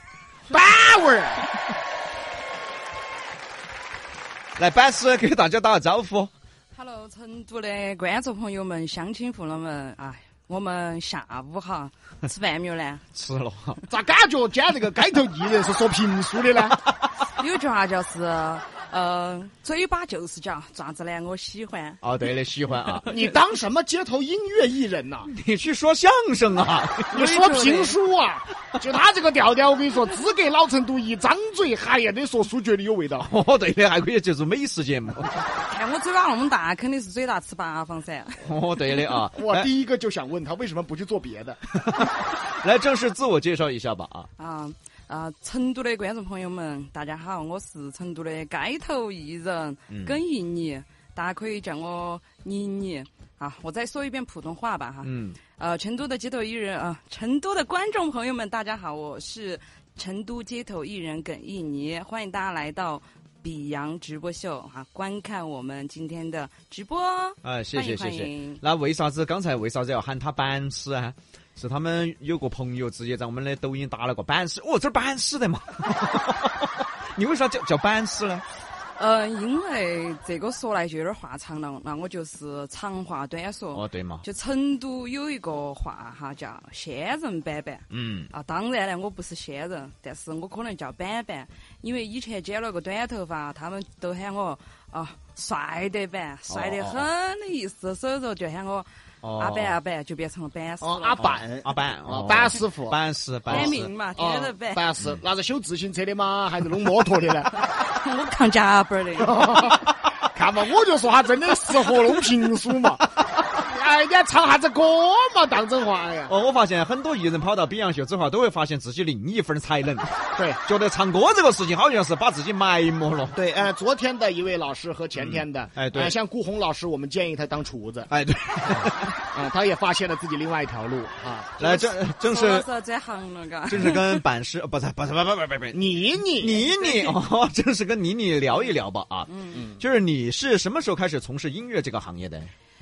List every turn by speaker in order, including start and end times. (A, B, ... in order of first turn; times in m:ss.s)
0:00.5-0:01.4 A
0:04.6-0:06.3 B
0:06.7-0:13.1 C
0:13.1-0:13.8 B
0:13.9-0:16.8 A
0:17.2-0:22.0 C
0:22.0-0:23.1 B
0:22.9-0:23.3 C
0:23.0-0:25.3 A
0:25.3-0:27.3 B
0:27.1-0:28.0 C
0:27.1-0:33.3 A
0:33.2-0:35.4 B
0:35.5-0:39.2 C
0:38.4-0:39.7 B
0:39.3-0:41.6 A
0:41.8-0:44.3 B
0:44.4-1:08.6 C
0:49.9-0:50.2 B
0:55.0-0:55.4 B
1:07.4-1:18.4 B
1:19.0-1:41.3 C
1:23.7-1:24.2 B
1:27.9-1:28.3 B
1:36.5-1:37.0 B
1:39.2-1:39.7 B
1:40.8-1:47.6 A
1:41.2-1:43.9 B
1:43.5-1:44.9 C
1:47.5-1:49.8 C
1:49.2-1:56.3 A
1:51.9-1:52.3 C
1:56.3-2:03.4 B
2:03.3-2:08.1 A
2:05.2-2:06.1 B
2:08.1-2:09.2 B
2:09.3-2:11.5 A
2:11.6-2:14.2 C
2:11.6-2:12.6 B
2:13.7-2:22.5 B
2:15.7-2:16.6 A
2:16.6-2:17.2 C
2:19.2-2:19.7 C
2:19.6-2:19.8 A